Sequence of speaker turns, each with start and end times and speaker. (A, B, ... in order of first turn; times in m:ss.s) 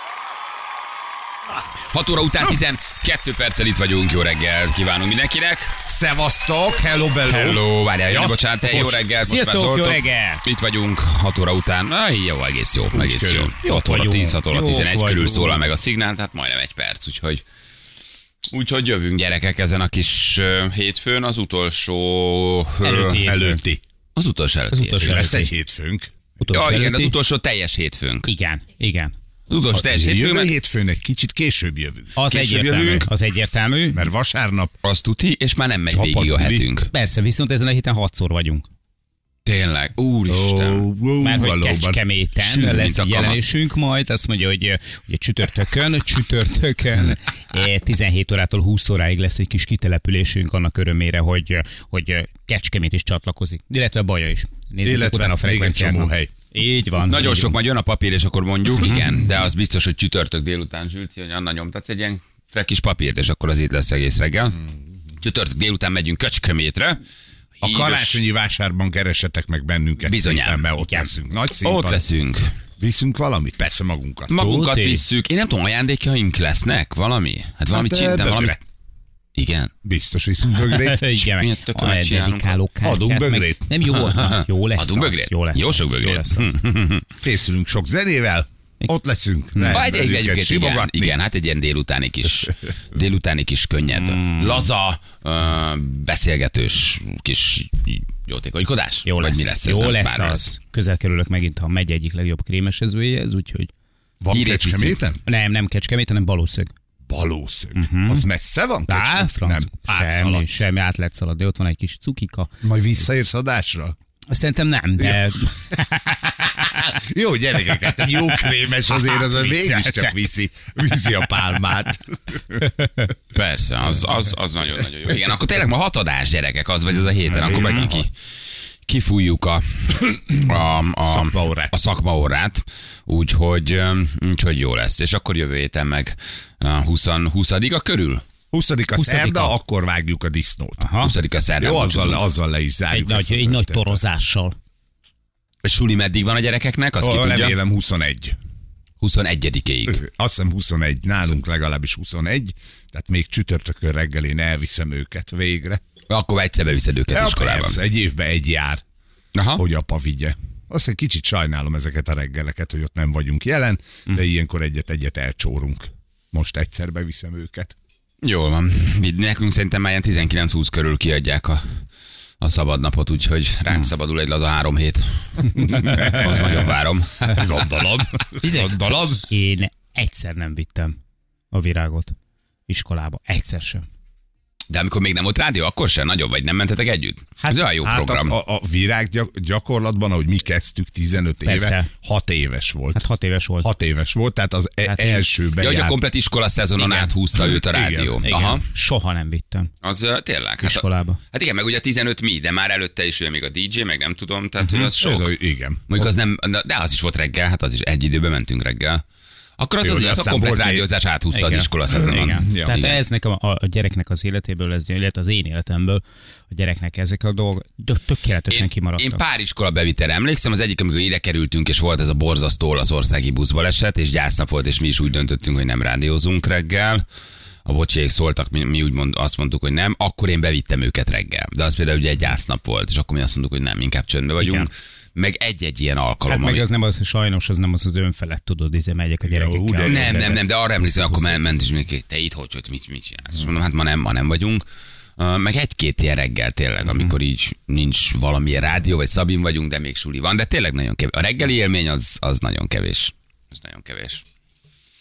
0:01.9-0:05.8 A
0:05.8-0:09.0 B
0:07.3-0:17.4 A
0:09.2-0:10.4 C
0:12.9-0:13.5 B
0:13.6-0:15.6 C
0:18.5-0:23.2 A
0:22.8-0:23.6 C
0:23.2-0:23.8 B
0:24.2-0:25.4 A
0:24.7-0:25.5 C
0:25.0-0:26.1 B
0:26.4-0:27.1 C
0:26.5-0:28.3 A
0:28.2-0:29.1 C
0:29.5-0:30.5 A
0:29.7-0:32.2 B
0:32.2-0:34.0 C
0:32.3-0:33.0 A
0:33.9-0:34.7 B
0:34.8-0:36.9 A
0:35.9-0:36.6 B
0:36.9-0:38.6 C
0:39.4-0:40.8 A
0:40.3-0:42.0 B
0:41.2-0:57.5 C
0:42.4-0:43.5 A
0:54.8-0:56.3 B
0:57.1-1:04.6 A
1:05.2-1:07.0 A
1:07.6-1:08.2 A
1:07.6-1:12.0 B
1:10.0-1:11.0 A
1:11.6-1:12.6 A
1:12.8-1:14.3 B
1:14.3-1:18.6 A
1:14.3-1:15.0 C
1:17.7-1:18.6 B
1:19.4-1:19.7 A
1:19.8-1:21.3 B
1:20.6-1:26.6 C
1:21.4-1:22.6 A
1:22.8-1:23.8 B
1:23.9-1:27.0 A
1:27.2-1:31.2 B
1:29.5-1:29.8 C
1:29.7-1:40.5 A
1:33.9-1:34.7 C
1:39.0-1:43.7 C
1:44.2-1:45.2 B
1:44.3-1:45.0 A
1:45.2-1:46.7 C
1:47.1-1:50.6 B
1:47.8-1:48.2 C
1:48.9-1:52.5 C
1:52.6-1:54.0 B
1:54.3-1:56.7 C
1:56.6-2:02.6 B
1:58.9-2:00.2 C
2:02.8-2:03.1 C
2:03.3-2:08.1 A
2:07.3-2:07.9 C
2:08.8-2:18.2 A
2:11.0-2:11.8 B
2:18.5-2:20.8 B
2:19.0-2:19.5 C
2:20.8-2:21.1 C
2:21.0-2:22.2 A
2:21.6-2:24.0 B
2:22.9-2:24.6 C
2:25.6-2:27.5 A
2:27.0-2:28.4 B
2:29.0-2:30.0 A
2:29.9-2:35.8 B
2:36.1-2:37.8 A
2:37.1-2:38.8 B
2:39.3-2:39.6 A
2:39.5-2:47.7 B
2:48.2-2:51.8 A
2:52.4-2:57.4 A
2:55.6-2:59.2 B
2:55.8-2:56.2 C
2:58.4-2:58.7 C
2:59.3-3:01.0 C
3:01.5-3:02.1 C
3:02.7-3:03.8 C
3:04.7-3:08.3 A
3:07.4-3:13.0 B
3:11.4-3:11.9 C
3:12.9-3:13.7 C
3:13.6-3:15.9 B
3:14.8-3:15.2 C
3:15.6-3:18.6 A
3:16.8-3:17.1 C
3:17.4-3:18.2 B
3:18.2-3:19.7 C
3:19.8-3:25.3 A
3:20.6-3:21.2 C
3:24.7-3:26.1 B
3:25.9-3:29.0 A
3:29.6-3:32.9 A
3:29.8-3:30.8 B
3:31.3-3:39.2 C
3:31.9-3:32.9 B
3:38.5-3:47.0 A
3:47.6-3:56.6 A
3:54.4-3:54.7 C
3:56.3-4:00.4 C
3:59.2-4:00.4 B
3:59.8-4:04.6 A
4:01.1-4:01.4 B
4:05.2-4:14.2 A